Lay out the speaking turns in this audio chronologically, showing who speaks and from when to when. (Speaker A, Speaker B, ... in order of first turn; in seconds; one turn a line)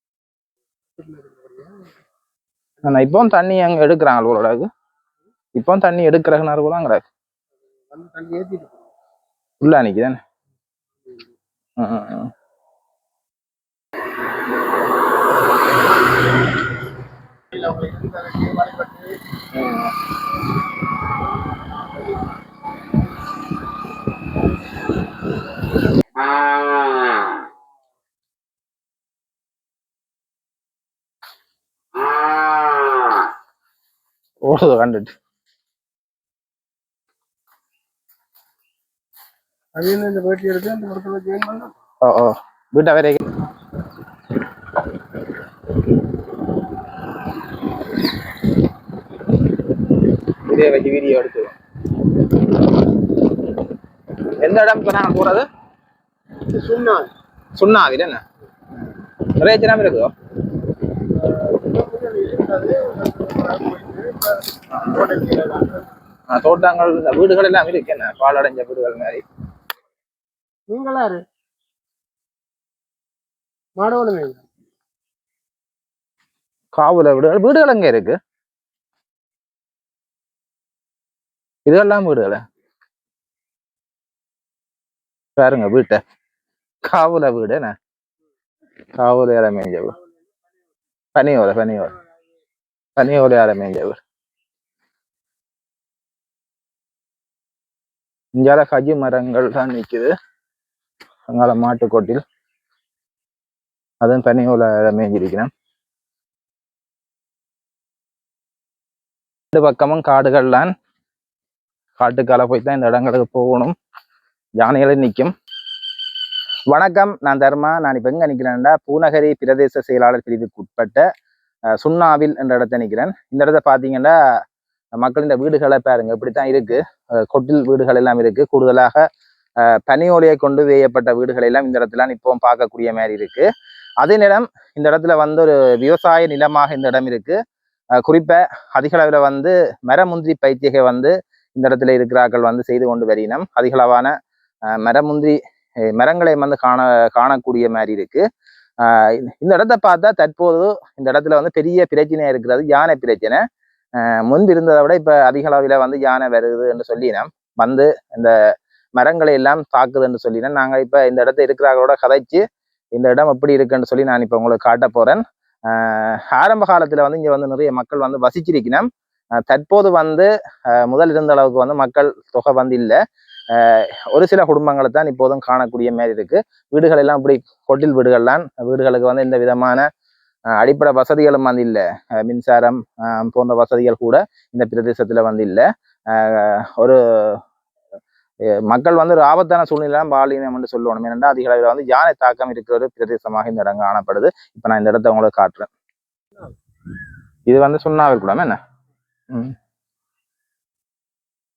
Speaker A: 1.0-1.9
Speaker B: 2.8-4.7
Speaker B: 5.5-7.0
Speaker A: 7.9-8.9
Speaker B: 9.6-10.2
Speaker B: 11.8-12.3
Speaker A: 17.6-19.1
Speaker B: 19.5-19.9
Speaker B: 34.5-35.1
Speaker A: 39.8-41.7
Speaker B: 42.0-43.2
Speaker B: 50.5-51.6
Speaker B: 54.4-55.5
Speaker A: 56.5-57.1
Speaker B: 57.6-58.2
Speaker B: 59.3-60.1
Speaker A: 61.2-65.8
Speaker B: 66.3-69.2
Speaker A: 70.7-71.2
Speaker A: 73.8-74.4
Speaker B: 76.7-78.2
Speaker B: 81.7-82.4
Speaker B: 85.4-86.0
Speaker B: 86.8-87.8
Speaker B: 89.0-90.0
Speaker B: 91.2-91.9
Speaker B: 93.0-94.0
Speaker B: 98.4-100.1
Speaker B: 101.3-102.2
Speaker B: 104.0-105.5
Speaker B: 109.5-110.7
Speaker B: 112.0-113.7
Speaker B: 114.6-115.3
Speaker B: 116.7-121.0
Speaker B: 121.7-124.1
Speaker B: 125.0-129.0
Speaker B: 129.6-133.5
Speaker B: 134.0-137.4
Speaker B: 138.0-144.1
Speaker B: 144.7-148.2
Speaker B: 148.8-153.4
Speaker B: 154.0-158.3
Speaker B: 159.0-162.4
Speaker B: 162.9-168.9
Speaker B: 169.4-173.0
Speaker B: 173.5-179.8
Speaker B: 180.5-187.4
Speaker B: 188.7-195.7
Speaker B: 197.5-198.6
Speaker B: 199.3-199.5